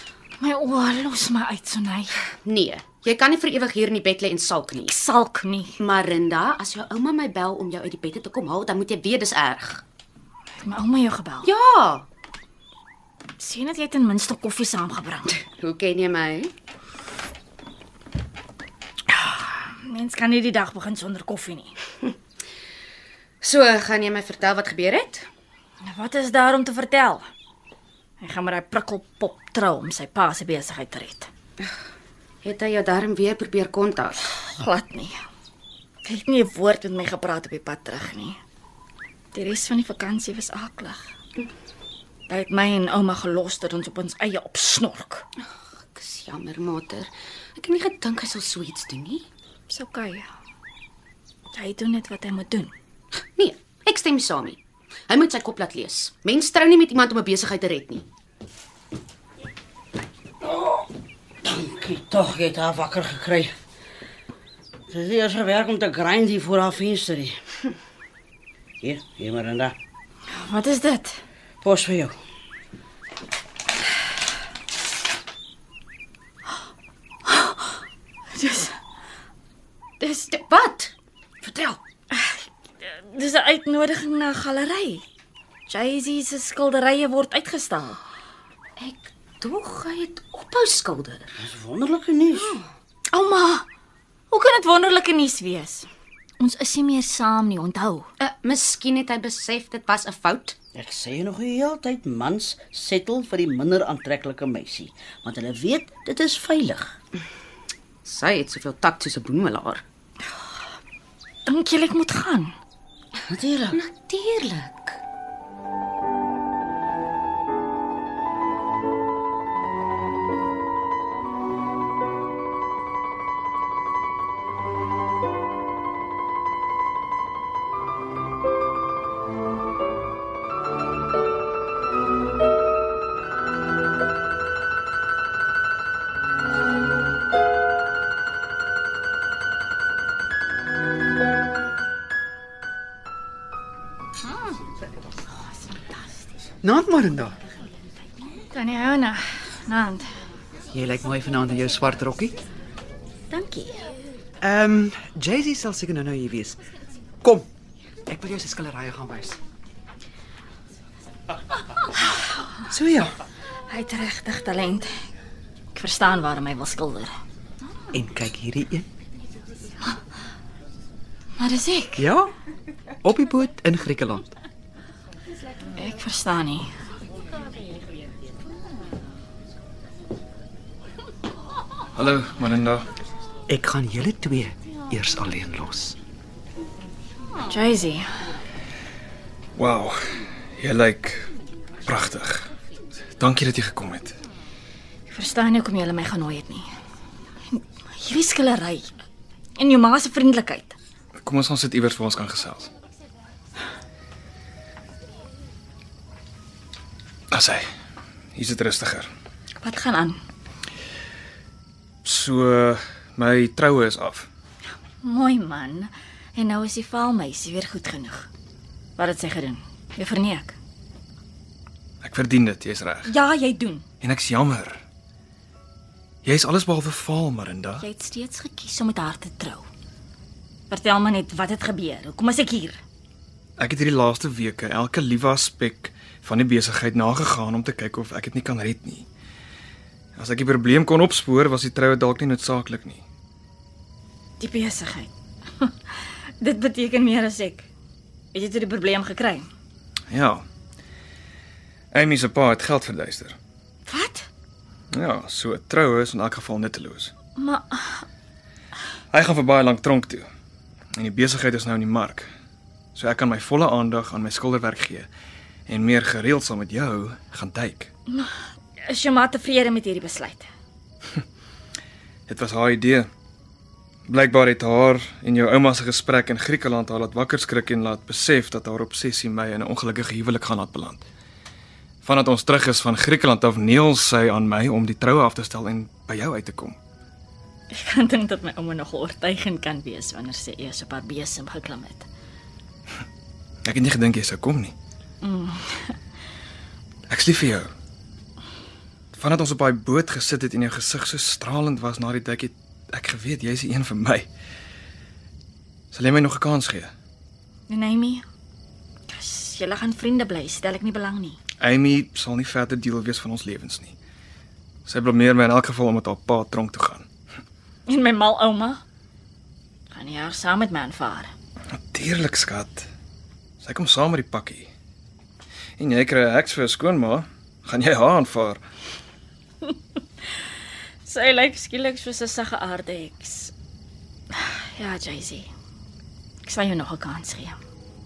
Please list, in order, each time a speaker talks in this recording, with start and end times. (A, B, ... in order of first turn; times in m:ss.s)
0:00.4-0:02.1 A
0:02.4-0:04.9 B
0:04.9-0:05.8 A
0:05.8-0:09.8 B
0:10.6-0:11.5 A
0:11.4-0:12.1 B
0:13.4-0:15.3 A
0:15.4-0:16.5 B
0:19.6-0:21.8 A
0:23.4-0:25.2 B
0:25.8-0:27.3 A
0:28.2-0:31.3 A
0:32.4-0:34.2 B
0:34.5-0:35.2 A
0:36.0-0:38.4 A
0:39.3-0:41.0 A
0:42.3-0:45.2 A
0:45.9-0:49.2 B
0:49.7-0:50.3 A
0:51.5-0:52.7 A
0:53.4-0:58.0 B
1:00.4-1:00.9 C
1:01.4-1:03.5 C
1:04.9-1:07.4 C
1:08.8-1:09.7 C
1:10.3-1:11.2 A
1:11.6-1:12.1 C
1:17.2-1:17.8 A
1:18.3-1:18.8 A
1:20.0-1:20.3 A
1:20.3-1:21.8 B
1:22.1-1:25.0 A
1:25.7-1:28.0 A
1:28.8-1:31.4 B
1:31.4-1:32.6 C
1:33.1-1:33.6 A
1:34.3-1:35.9 A
1:36.4-1:38.1 A
1:38.2-1:40.6 B
1:40.7-1:46.9 C
1:48.0-1:49.8 B
1:51.4-1:52.5 A
1:53.3-1:53.8 C
1:53.7-1:55.0 B
2:24.2-2:24.6 A
2:25.4-2:26.0 A
2:26.6-2:27.4 D
2:28.5-2:30.1 A
2:30.7-2:32.4 D
2:33.3-2:33.8 A
2:34.4-2:36.6 D
2:37.2-2:37.5 D
2:38.0-2:39.4 D
2:42.7-2:43.1 D
2:43.7-2:44.9 A
2:45.7-2:47.2 A
2:47.9-2:48.9 D
2:51.4-2:52.1 A
2:52.0-2:52.3 D
2:53.0-2:54.3 D
2:55.8-2:56.7 A
3:01.9-3:02.8 E
3:03.5-3:06.0 D
3:07.4-3:08.1 A
3:09.6-3:11.3 E
3:11.8-3:12.5 E
3:13.2-3:14.2 E
3:15.1-3:16.7 A
3:17.5-3:18.9 A
3:19.6-3:20.8 A
3:21.2-3:22.7 E
3:27.3-3:27.6 E
3:28.3-3:29.1 E
3:29.6-3:30.2 A
3:32.0-3:34.3 E
3:35.0-3:38.3 A
3:39.0-3:40.6 A
3:42.0-3:43.1 E
3:43.0-3:43.8 A
3:44.0-3:44.8 E
3:46.2-3:47.8 E
3:47.8-3:49.7 A
3:50.7-3:52.8 A
3:53.6-3:59.0 E
4:00.2-4:03.0 E
4:04.4-4:07.7 A
4:08.3-4:09.5 A
4:10.1-4:10.4 E
4:11.9-4:13.4 E
4:13.8-4:14.3 A
4:14.9-4:17.1 E
4:17.4-4:18.0 A
4:19.1-4:20.3 E
4:21.0-4:22.3 E
4:22.9-4:25.1 E
4:25.7-4:27.9 E
4:28.1-4:30.5 A
4:32.3-4:33.1 E
4:34.1-4:41.0 E
4:42.0-4:46.8 E
4:47.7-4:52.1 A
4:53.6-4:54.7 E
4:55.2-4:56.0 A
4:57.1-4:57.7 E
4:59.1-5:04.3 E
5:05.9-5:06.9 E
5:07.7-5:08.2 A
5:09.1-5:11.4 A
5:11.6-5:14.0 E
5:14.8-5:17.0 E
5:17.9-5:18.8 A
5:19.9-5:21.3 A
5:21.7-5:22.9 E
5:23.6-5:24.7 E
5:25.8-5:28.6 E
5:31.0-5:33.5 A
5:34.3-5:35.5 A
5:36.4-5:37.6 A